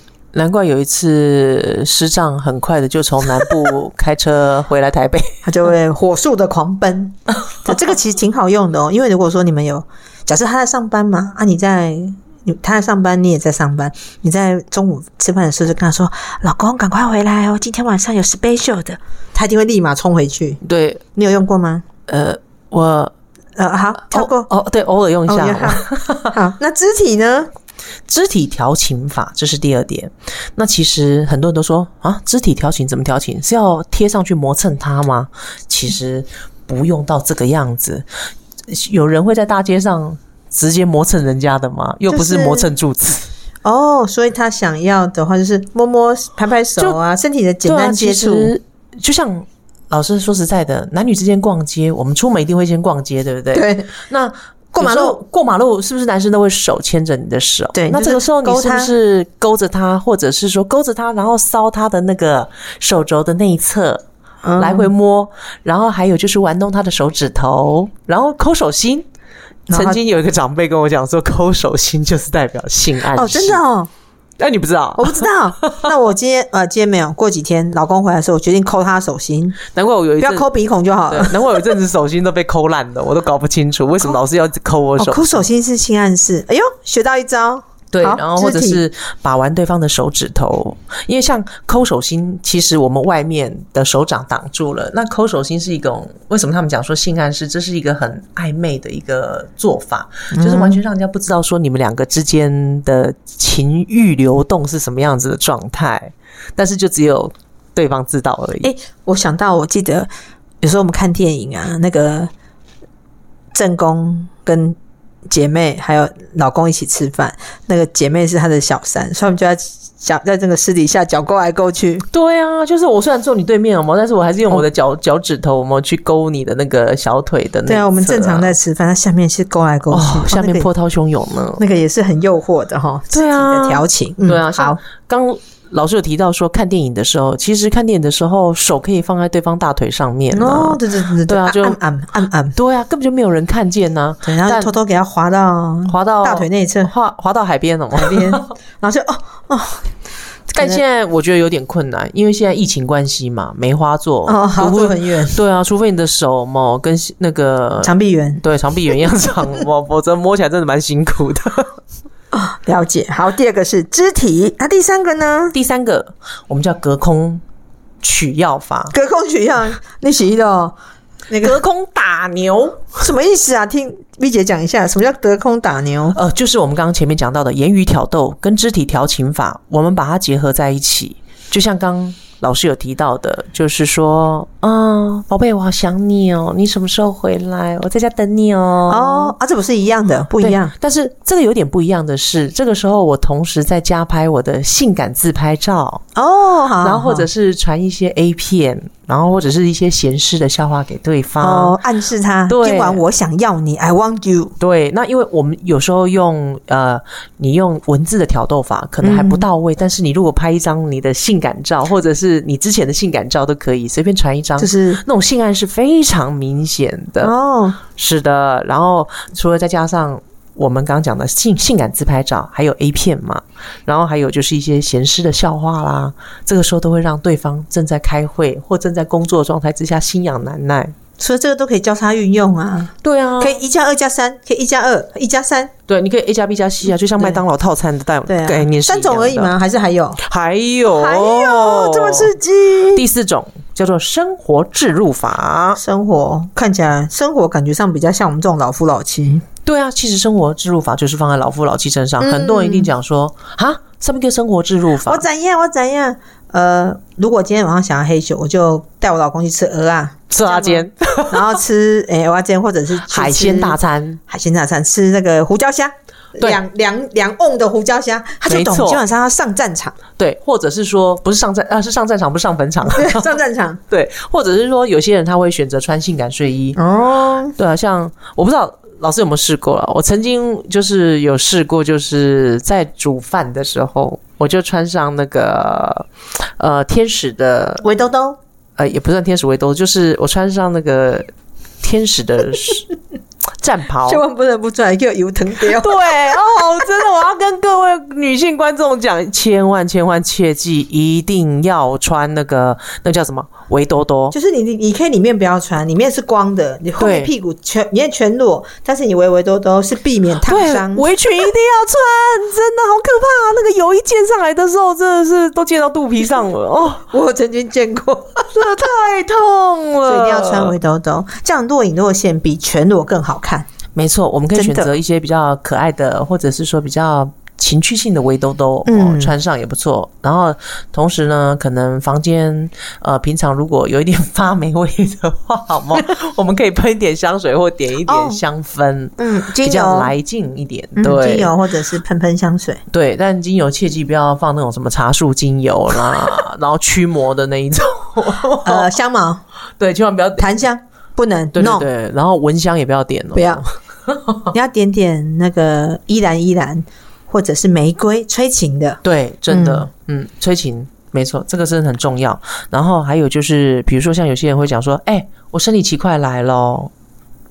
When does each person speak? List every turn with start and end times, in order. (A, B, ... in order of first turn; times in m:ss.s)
0:00.3-0:05.4 A
0:05.4-0:20.6 B
0:20.6-0:21.0 A
0:21.2-0:21.8 B
0:22.1-0:23.1 A
0:23.6-0:24.5 B
0:24.1-0:26.3 A
0:25.3-0:27.5 B
0:28.1-0:38.1 A
0:38.7-0:43.3 A
0:42.1-0:42.7 B
0:43.6-0:48.5 B
0:47.6-1:04.0 A
0:53.5-0:53.9 B
0:54.7-0:55.2 B
0:57.8-0:58.9 B
1:04.4-1:04.9 B
1:04.6-1:09.1 A
1:09.7-1:10.0 B
1:09.7-1:13.6 A
1:13.1-1:13.9 B
1:14.4-1:15.9 A
1:15.0-1:19.6 B
1:19.7-1:20.5 A
1:20.2-1:21.6 B
1:21.1-1:25.4 A
1:25.0-1:28.8 B
1:27.9-1:48.7 A
1:40.3-1:40.8 B
1:48.6-1:50.1 B
1:50.6-1:52.3 B
1:53.5-1:54.8 B
1:55.3-2:02.1 B
2:02.1-2:08.5 A
2:07.7-2:10.7 B
2:09.9-2:11.6 A
2:11.6-2:14.8 B
2:13.1-2:21.8 A
2:20.3-2:22.6 B
2:22.6-2:24.7 A
2:24.2-2:26.9 B
2:25.9-2:28.4 A
2:27.9-2:29.9 B
2:30.5-2:41.7 A
2:30.5-2:30.8 B
2:34.3-2:35.4 B
2:37.8-2:38.4 B
2:42.3-2:45.6 B
2:45.5-2:47.4 A
2:48.0-2:48.9 A
2:48.9-2:50.8 B
2:51.3-2:51.6 B
2:51.4-2:52.9 A
2:53.0-2:56.2 B
2:56.2-3:09.4 A
3:08.9-3:10.7 B
3:10.4-3:16.0 A
3:16.2-3:17.3 B
3:16.8-3:21.8 A
3:21.4-3:24.5 B
3:22.5-3:23.0 A
3:24.6-3:37.3 A
3:29.0-3:29.5 B
3:34.6-3:35.0 B
3:37.2-3:37.8 B
3:37.9-3:51.0 A
3:51.2-3:55.7 B
3:53.0-3:53.6 A
3:55.9-3:59.5 A
3:58.3-4:00.2 B
4:00.2-4:02.3 A
4:00.9-4:03.0 B
4:02.9-4:05.8 A
4:05.8-4:09.4 B
4:09.7-4:15.2 A
4:12.2-4:12.9 B
4:15.0-4:23.8 B
4:20.3-4:21.5 A
4:23.0-4:24.2 A
4:24.3-4:30.0 B
4:28.5-4:29.0 A
4:30.2-4:33.3 A
4:32.9-4:33.8 B
4:33.9-4:36.8 A
4:36.8-4:37.6 B
4:37.6-4:47.9 A
4:47.8-4:48.4 B
4:48.8-4:51.3 A
4:51.8-4:52.9 A
4:53.6-4:54.2 A
4:54.0-4:56.2 B
4:55.6-5:04.4 A
5:04.3-5:11.1 B
5:07.0-5:07.3 A
5:10.5-5:17.1 A
5:17.1-5:18.5 B
5:18.5-5:20.7 A
5:20.0-5:23.7 B
5:24.0-5:41.5 A
5:24.5-5:24.9 B
5:28.9-5:29.3 B
5:38.1-5:38.4 B
5:39.2-5:40.1 B
5:41.0-5:42.8 B
5:42.9-5:48.9 A
5:48.6-5:49.4 B
5:49.8-5:50.5 A
5:50.4-5:51.9 B
5:51.5-5:54.5 A
5:53.3-5:53.6 B
5:54.5-5:59.9 B
5:59.0-6:06.9 A